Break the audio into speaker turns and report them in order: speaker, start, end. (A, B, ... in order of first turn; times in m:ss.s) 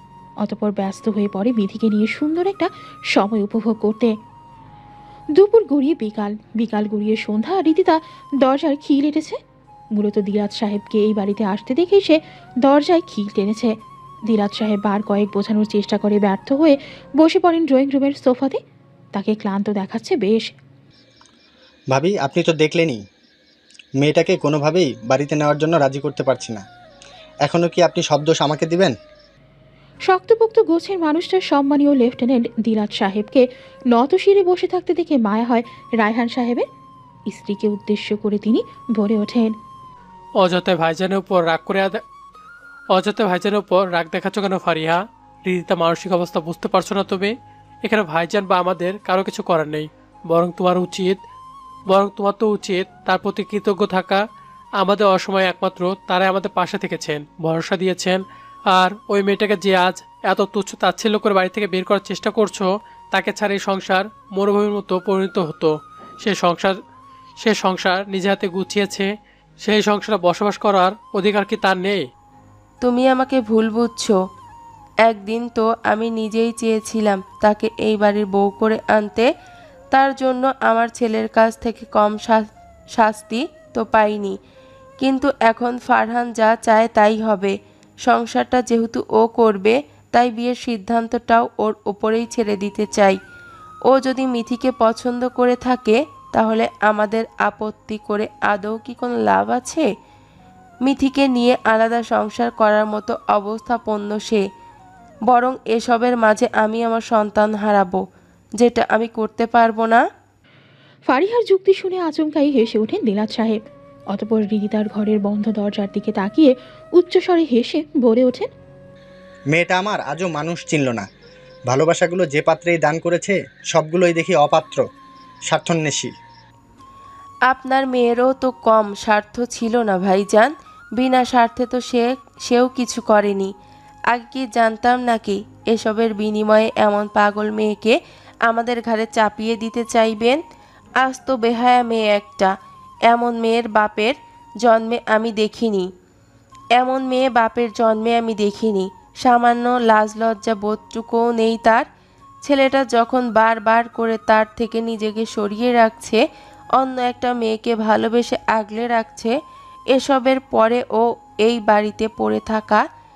0:00.4-0:04.1 A
0:05.4-0:09.4 A
0:09.9-0:13.7 A
0:14.3-0:18.6 A
0:19.1-0:20.5 A
0:21.9-0:23.0 B
0:24.0-0:26.6 B
0:27.5-0:28.9 B
0:30.1-0:36.6 A
0:37.3-0:39.5 A
0:40.4-0:42.0 C
0:42.9-0:47.4 C
0:47.9-0:51.2 C
0:51.9-0:54.2 C
0:54.8-1:06.8 C
1:07.4-1:09.1 C
1:09.6-1:12.0 C
1:12.8-1:14.2 D
1:15.0-1:19.3 D
1:19.9-1:24.4 D
1:25.0-1:27.5 D
1:28.1-1:33.2 D
1:33.9-1:39.9 D
1:40.8-1:44.4 D
1:45.3-1:48.0 D
1:48.6-1:50.0 D
1:51.1-1:53.6 A
1:54.1-1:58.5 A
1:59.5-2:01.1 B
2:01.7-2:04.8 B
2:05.5-2:06.1 B
2:07.5-2:13.5 D
2:14.1-2:17.9 D
2:18.5-2:20.4 D
2:21.0-2:22.5 D
2:23.1-2:25.9 D
2:26.8-2:31.8 D
2:32.4-2:36.2 D
2:36.8-2:39.3 D
2:39.9-2:42.8 D